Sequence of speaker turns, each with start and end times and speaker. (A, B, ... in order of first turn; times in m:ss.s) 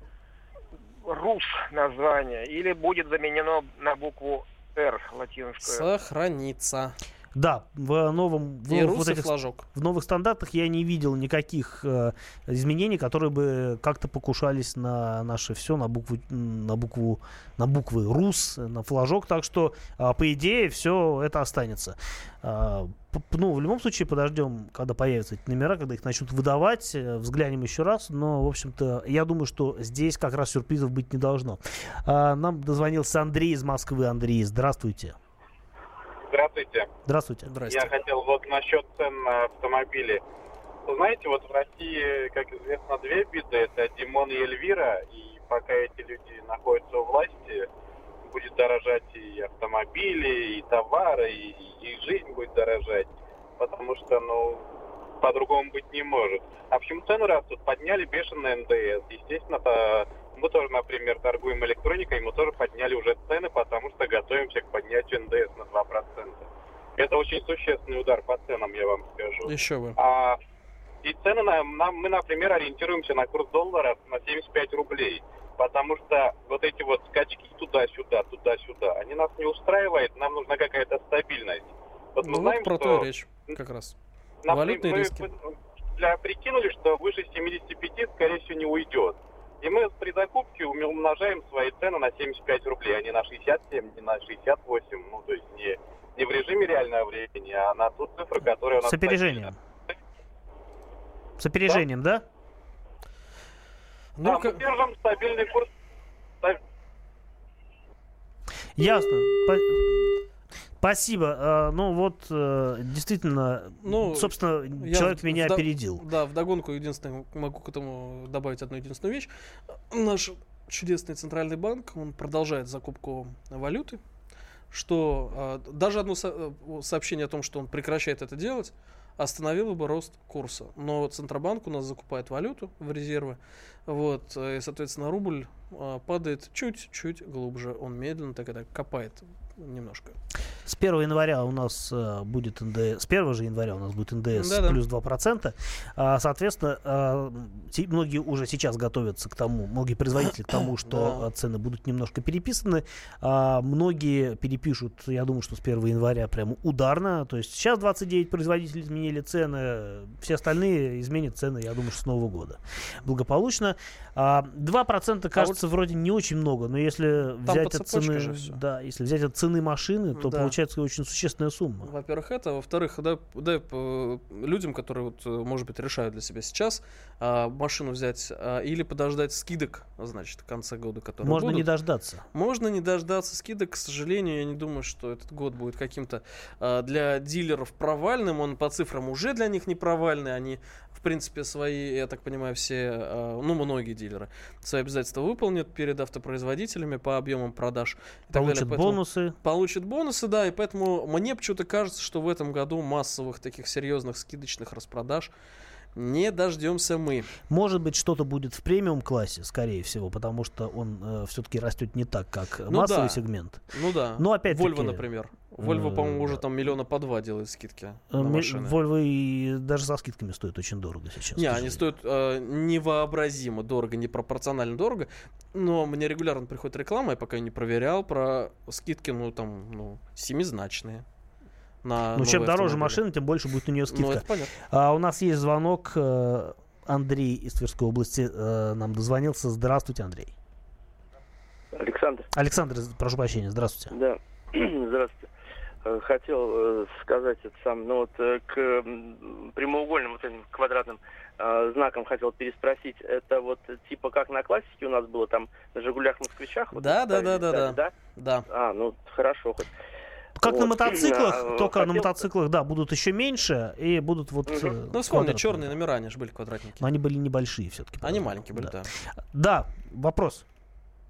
0:01.0-0:05.9 A
0:05.6-0:07.0 B
0:07.4-0:35.2 C
0:08.7-0:09.6 B
0:36.3-0:36.9 D
0:37.1-0:37.5 C
0:37.5-0:37.9 B
0:37.7-0:40.2 D
0:40.9-0:47.7 D
0:48.2-0:54.7 D
0:55.2-1:06.5 D
1:07.0-1:10.4 D
1:09.4-1:10.0 B
1:11.0-1:23.1 D
1:22.2-1:24.0 B
1:24.4-1:39.5 D
1:24.5-1:25.3 B
1:38.8-1:39.6 C
1:41.4-1:42.2 C
1:44.2-1:44.6 B
1:44.2-1:45.7 D
1:48.8-1:50.2 C
1:50.8-1:56.0 C
1:53.8-1:59.3 B
1:59.9-2:04.0 B
2:04.7-2:20.2 B
2:20.7-2:51.9 C
2:24.4-2:24.8 B
2:30.8-2:31.3 B
2:45.4-2:45.6 B
2:47.4-2:48.6 B
2:50.2-2:50.6 B
2:51.8-3:01.7 B
3:01.2-3:02.3 C
3:02.3-3:25.3 B
3:18.3-3:19.4 C
3:26.0-3:27.3 B
3:27.5-3:33.6 C
3:32.7-3:38.8 B
3:34.2-3:36.5 C
3:38.1-3:41.9 C
3:41.4-3:51.0 B
3:51.8-3:53.0 B
3:52.1-4:00.3 C
3:53.9-3:54.5 B
4:01.7-4:02.3 E
4:02.3-4:03.9 C
4:03.9-4:05.2 E
4:05.8-4:17.9 E
4:16.7-4:18.5 B
4:18.5-4:19.7 E
4:20.4-4:25.8 C
4:20.4-4:22.1 E
4:24.5-4:24.8 E
4:24.9-4:26.9 B
4:26.8-4:30.4 C
4:28.0-4:28.9 B